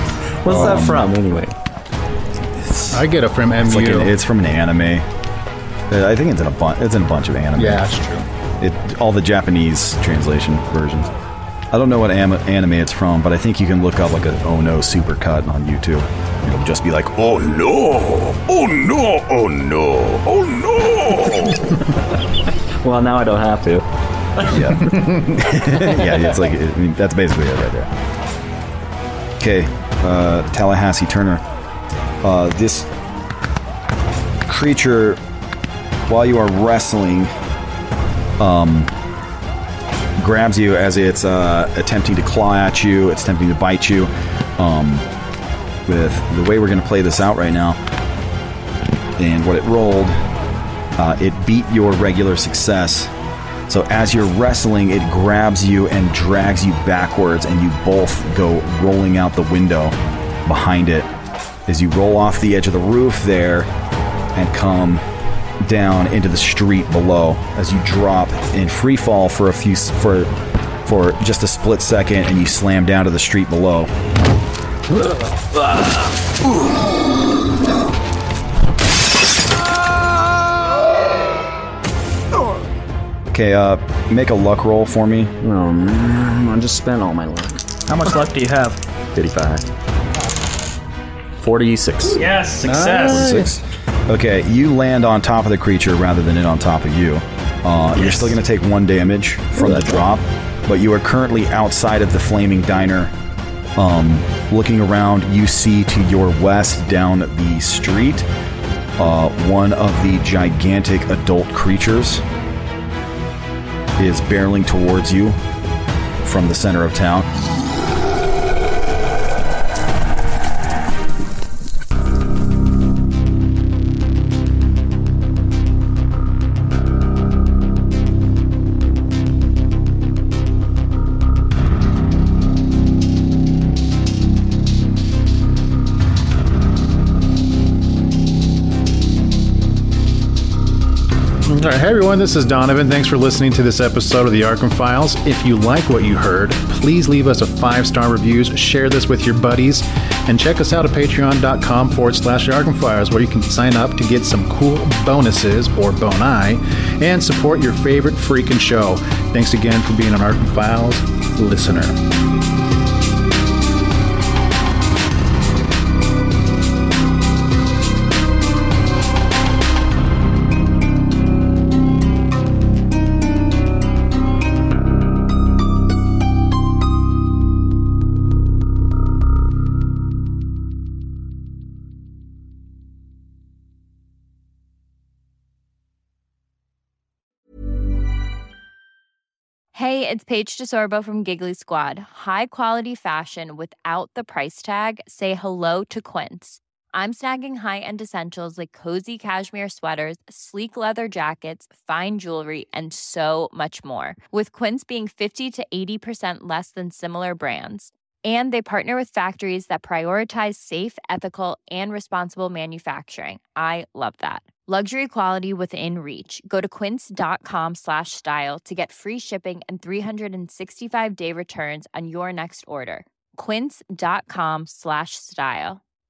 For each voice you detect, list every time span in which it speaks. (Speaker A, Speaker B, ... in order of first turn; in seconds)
Speaker A: 0.4-1.5, 22.8-23.9, 85.4-87.6, 89.1-89.7, 91.3-92.3
Speaker B: 0.4-1.1, 2.5-3.0, 3.6-5.0, 5.9-7.8, 8.6-11.1, 11.7-21.4, 24.5-27.9, 29.4-31.4, 32.2-32.9, 34.5-35.2, 36.1-37.3, 38.4-38.9, 40.2-45.1, 45.9-47.8, 49.2-50.2, 51.0-53.1, 53.7-61.1, 61.7-63.7, 64.3-65.0, 65.6-70.3, 70.8-73.9, 83.3-85.3, 92.9-103.1, 103.8-108.3, 109.0-112.2, 114.0-115.4, 116.2-117.3
Speaker C: 2.9-4.1, 7.5-8.2, 92.7-93.4, 141.4-162.0
Speaker D: 87.9-88.8, 92.1-93.4
Speaker E: 189.7-225.8